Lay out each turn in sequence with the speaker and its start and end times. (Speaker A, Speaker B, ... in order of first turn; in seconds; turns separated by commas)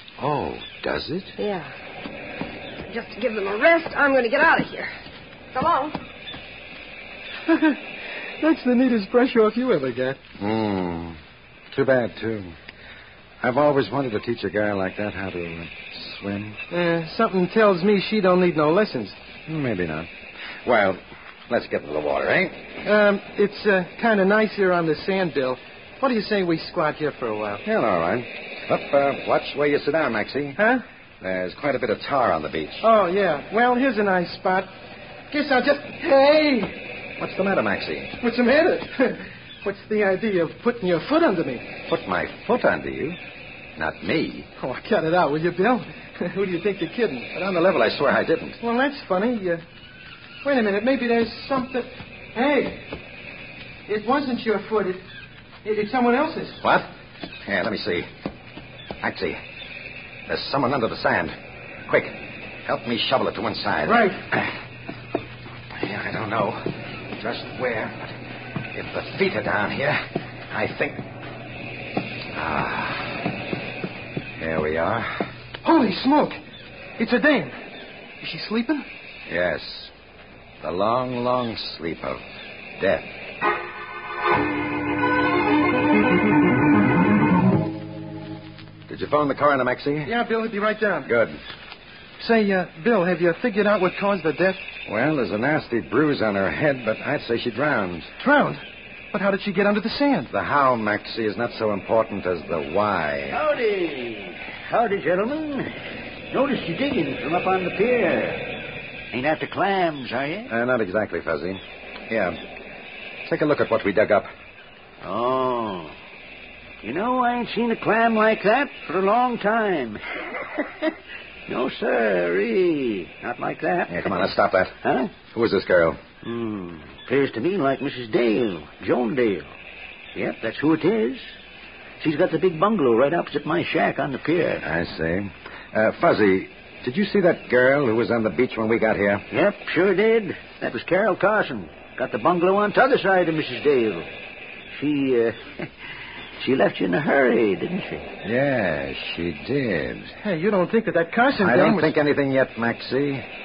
Speaker A: 0.2-1.4, Speaker B: 1.4-1.7, Speaker B: 2.9-4.9, Speaker B: 5.5-6.0, Speaker C: 7.5-10.2, Speaker A: 10.4-11.2, Speaker A: 11.7-12.6, Speaker A: 13.4-16.6, Speaker C: 16.7-19.1, Speaker A: 19.5-20.1, Speaker A: 20.6-22.8, Speaker C: 22.8-27.6, Speaker A: 27.6-30.6, Speaker C: 30.6-30.8, Speaker A: 31.2-32.9, Speaker C: 32.8-34.7, Speaker C: 35.3-36.8, Speaker A: 37.2-38.2, Speaker C: 38.2-41.8, Speaker A: 41.8-43.2, Speaker A: 43.8-44.5, Speaker C: 44.6-47.3, Speaker A: 47.3-48.6, Speaker C: 48.6-49.6, Speaker C: 50.4-52.8, Speaker C: 53.9-55.0, Speaker C: 55.6-56.6, Speaker A: 56.6-56.9, Speaker A: 57.4-58.1, Speaker A: 59.0-59.4, Speaker A: 60.3-61.4, Speaker A: 61.9-64.5, Speaker C: 63.9-64.2, Speaker A: 65.7-68.2, Speaker A: 68.7-71.0, Speaker A: 72.3-73.2, Speaker A: 74.3-75.3, Speaker C: 75.6-76.4, Speaker C: 77.0-77.5, Speaker C: 78.2-78.8, Speaker A: 79.3-79.9, Speaker A: 80.6-82.2, Speaker A: 82.8-83.1, Speaker A: 88.9-90.2, Speaker C: 90.0-91.1, Speaker A: 91.1-91.4, Speaker C: 92.2-94.6, Speaker A: 94.8-98.1, Speaker C: 98.2-100.3, Speaker A: 100.3-103.4, Speaker D: 103.3-105.7, Speaker D: 106.3-108.5, Speaker D: 109.1-110.5, Speaker A: 110.5-112.4, Speaker A: 113.2-114.3, Speaker D: 115.0-116.0, Speaker D: 116.8-120.0, Speaker D: 121.5-124.2, Speaker A: 123.9-126.0, Speaker D: 124.8-125.1, Speaker D: 126.2-129.5, Speaker D: 130.1-131.3, Speaker D: 132.0-134.6, Speaker A: 134.6-139.3, Speaker D: 139.3-144.1, Speaker D: 144.7-145.7, Speaker D: 146.4-148.1, Speaker A: 148.2-150.1, Speaker C: 150.2-151.9, Speaker A: 151.4-153.2